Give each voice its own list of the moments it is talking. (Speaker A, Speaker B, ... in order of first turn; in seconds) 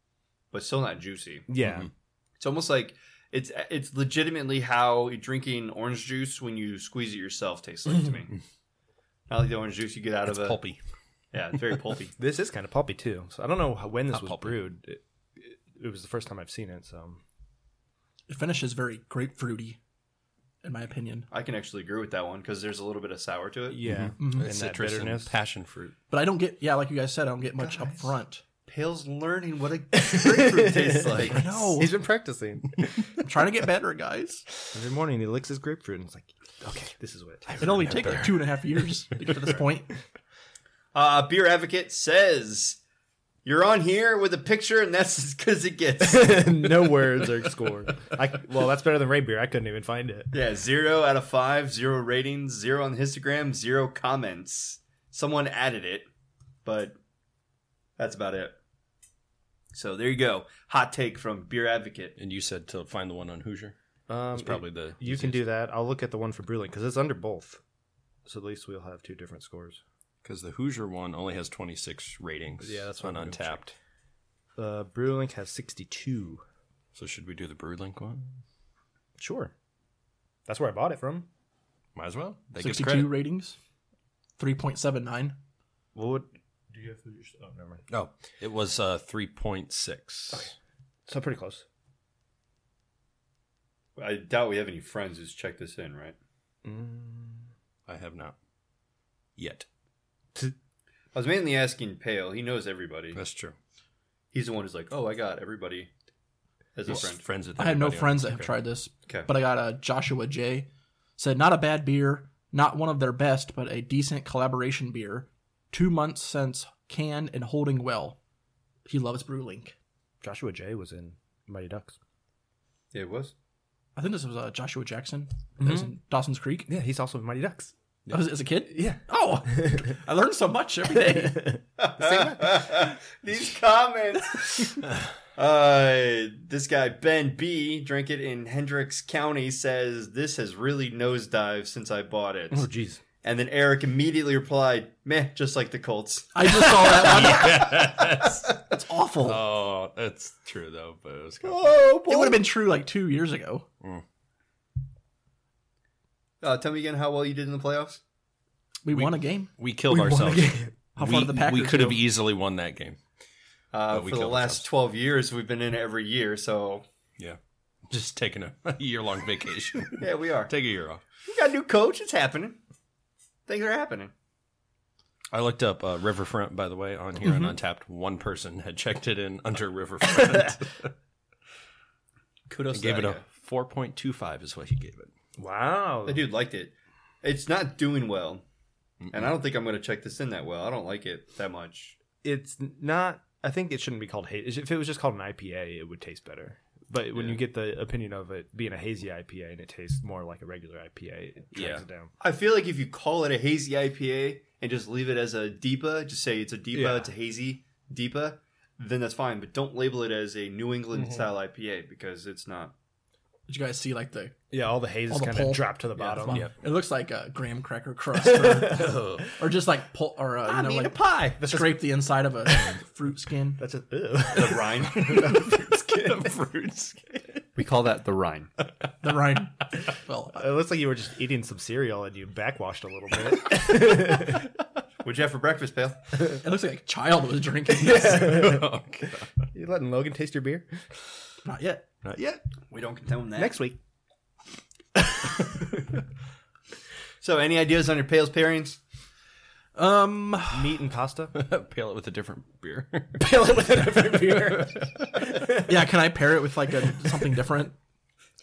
Speaker A: 0.5-1.5, 2.4-8.4, 9.3-10.6, 11.3-12.1, 21.3-23.8, 28.7-31.6, 41.0-42.8, 43.5-46.7, 50.3-56.1, 56.6-57.0, 58.0-58.6, 59.7-62.1, 94.0-96.2, 101.1-103.2, 104.3-105.9, 106.8-107.2, 122.9-123.3, 131.8-142.7, 143.2-147.5, 151.5-152.4, 156.4-158.0, 163.7-166.8, 170.0-170.5, 171.2-172.6, 173.5-174.1, 182.5-183.2, 186.1-188.4, 189.1-192.0, 202.2-212.7, 220.5-221.4, 224.3-225.3, 227.6-228.5, 235.0-236.0, 242.7-243.6, 247.2-248.8
Speaker B: 1.5-1.9, 12.2-17.2, 23.7-25.3, 30.0-33.1, 34.7-38.3, 46.0-50.3, 64.1-67.6, 68.3-69.8, 72.6-73.8, 74.6-76.4, 79.2-79.5, 80.5-81.3, 86.0-87.8, 91.1-91.6, 96.6-97.5, 120.2-122.0, 125.6-125.9, 126.7-127.7, 128.7-129.9, 130.9-132.8, 142.5-143.0, 146.8-147.1, 159.9-160.7, 185.4-186.2, 192.2-202.1, 206.7-207.1, 211.0-211.2, 214.5-216.5, 218.2-219.3, 221.4-221.8, 222.5-222.7, 223.6-225.6, 230.3-234.5, 237.8-238.7, 239.5-240.8, 243.4-243.8, 245.0-245.9, 250.5-251.3, 253.2-255.8
Speaker C: 10.3-10.8, 14.1-14.6, 23.8-26.0, 37.6-38.4, 62.2-63.8, 64.3-65.5, 70.2-73.7, 76.9-78.3, 82.0-83.1, 87.9-90.5, 97.9-98.4, 99.4-99.7, 103.1-103.5, 106.9-108.5, 146.8-148.6, 149.2-151.9, 158.9-163.0, 163.9-164.7, 167.2-171.0, 175.3-180.9, 182.7-185.1, 201.5-201.8, 218.7-219.3, 225.0-227.2, 237.9-239.3, 242.0-242.4, 251.3-254.9
Speaker D: 18.3-19.8, 20.6-21.3, 24.2-24.5, 26.1-28.4, 31.3-32.0, 33.2-34.5, 37.6-39.9, 82.6-83.6, 84.4-85.4, 107.6-118.2, 118.8-119.8, 124.0-126.7, 128.1-131.6, 146.3-148.0, 148.5-149.4, 151.9-153.7, 158.8-159.5, 161.0-162.0, 213.5-214.4, 215.1-223.6, 229.0-230.4, 236.3-238.6, 241.4-241.9, 249.8-250.7, 255.6-257.8